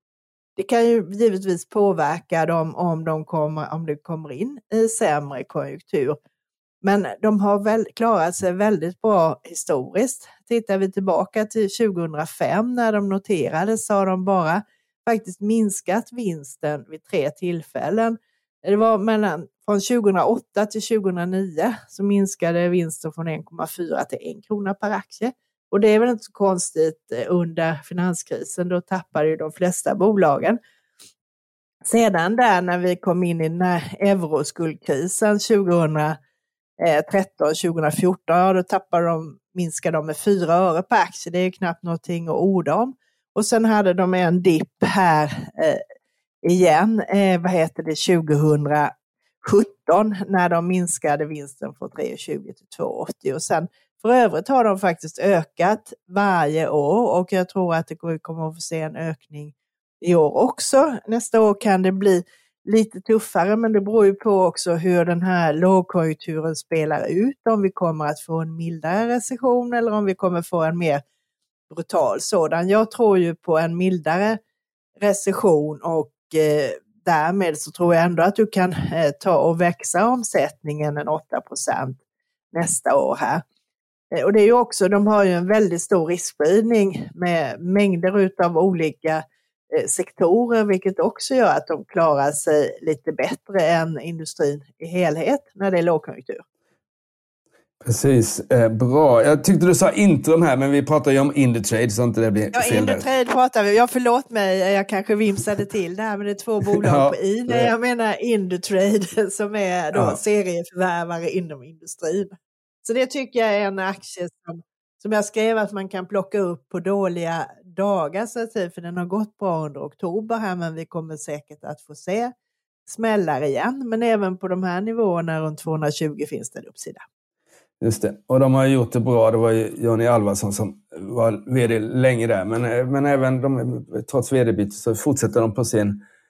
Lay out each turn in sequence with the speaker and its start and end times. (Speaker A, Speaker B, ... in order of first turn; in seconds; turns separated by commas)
Speaker A: 0.6-6.2, Speaker A: 6.8-30.6, Speaker A: 31.9-36.2, Speaker A: 36.8-45.8, Speaker A: 46.4-48.9, Speaker A: 49.4-71.0, Speaker A: 71.7-74.4, Speaker A: 75.0-82.0, Speaker A: 82.5-83.4, Speaker A: 84.1-96.4, Speaker B: 97.8-103.1, Speaker A: 102.5-122.3, Speaker B: 106.7-107.7, Speaker A: 122.9-127.0, Speaker B: 127.8-136.0